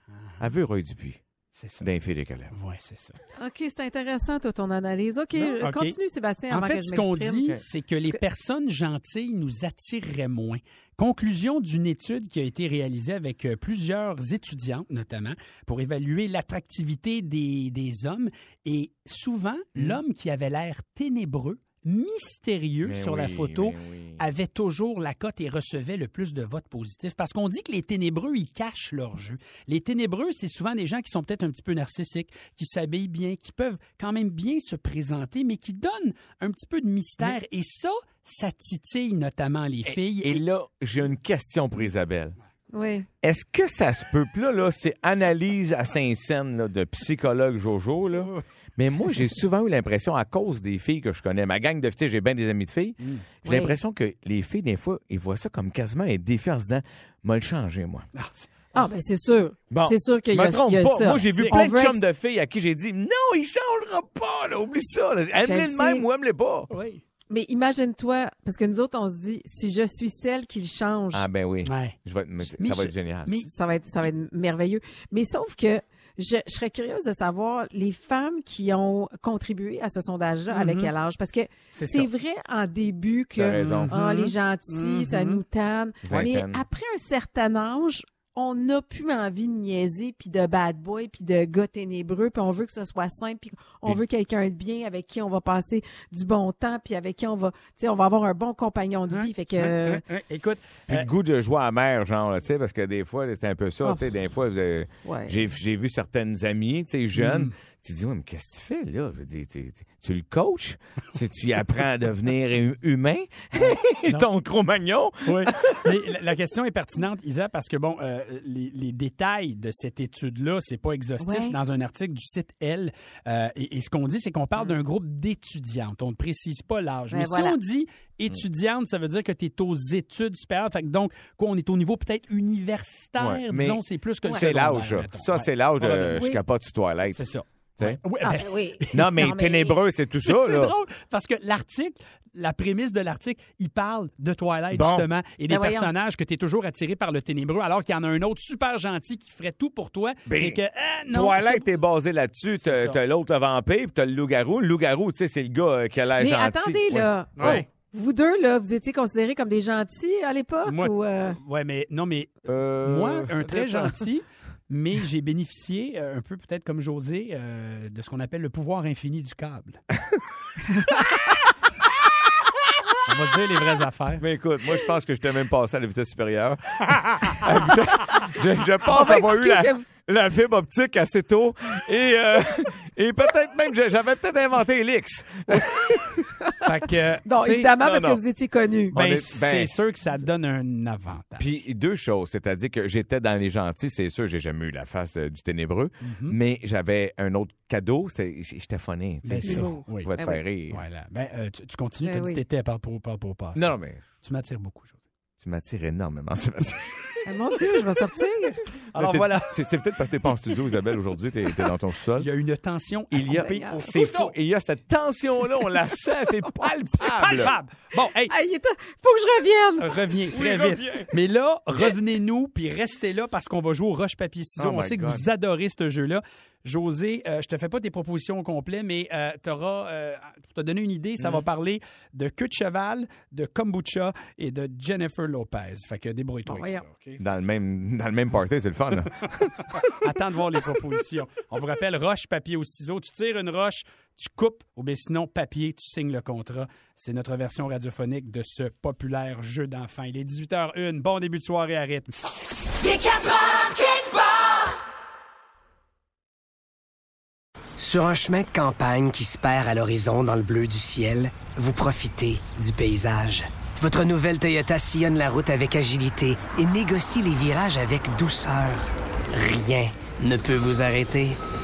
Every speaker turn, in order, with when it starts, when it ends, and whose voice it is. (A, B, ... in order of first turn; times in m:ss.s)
0:00.4-0:01.2 A
0:01.5-0:01.9 B
0:01.8-0:02.6 A
0:02.5-0:03.2 B
0:03.4-0:08.2 C
0:05.4-0:06.0 B
0:06.5-0:40.4 B
0:19.8-0:20.0 A
0:22.8-0:24.2 A
0:39.8-0:42.4 A
0:42.7-0:43.1 C
0:43.2-0:58.1 A
0:53.0-0:53.3 B
0:53.5-0:53.8 C
0:58.2-0:58.5 B
0:58.8-1:02.0 C
0:59.7-1:06.7 A
1:01.2-1:01.6 B
1:05.4-1:06.1 C
1:06.7-1:07.0 B
1:07.3-1:11.2 C
1:11.1-1:13.4 A
1:11.6-1:12.0 B
1:12.5-1:13.5 B
1:13.4-1:40.0 C
1:20.5-1:20.9 B
1:21.8-1:22.1 B
1:23.4-1:23.9 A
1:23.6-1:25.4 B
1:26.0-1:26.6 A
1:39.1-1:41.1 B
1:40.9-1:56.0 A
1:45.0-1:45.4 C
1:47.2-1:47.5 B
1:55.2-2:16.4 B
2:01.2-2:01.6 C
2:07.1-2:07.6 C
2:13.2-2:17.2 A
2:17.2-2:19.4 B
2:18.2-2:19.8 C
2:18.9-2:20.8 A
2:20.2-2:31.7 B
2:24.7-2:25.1 A
2:25.5-2:25.9 C
2:30.3-2:37.7 A
2:32.6-2:33.0 B
2:36.2-2:41.4 C
2:37.4-2:37.6 B
2:40.6-2:49.8 B
2:42.5-2:44.0 A
2:53.1-2:54.2 B
2:54.2-3:06.2 A
2:58.9-2:59.8 C
3:06.6-3:07.7 B
3:07.2-3:09.0 C
3:07.8-3:08.2 A
3:08.9-3:09.7 A
3:08.9-3:11.5 B
3:11.4-3:20.8 A
3:16.0-3:16.4 B
3:19.2-3:20.1 B
3:19.4-3:20.4 C
3:20.7-3:25.0 B
3:22.0-3:22.4 C
3:23.6-3:24.1 A
3:25.4-3:27.0 A
3:27.2-3:28.6 C
3:28.9-3:29.6 B
3:29.0-3:32.3 A
3:32.2-3:34.4 B
3:33.1-3:37.6 A
3:33.4-3:33.8 C
3:37.0-3:38.4 B
3:38.3-3:40.0 C
3:39.8-3:57.2 B
3:40.3-3:41.1 A
3:44.6-3:45.3 A
3:51.2-3:51.5 A
3:56.5-3:56.8 C
3:57.2-3:59.9 A
3:59.8-4:12.2 B
4:17.8-4:31.4 D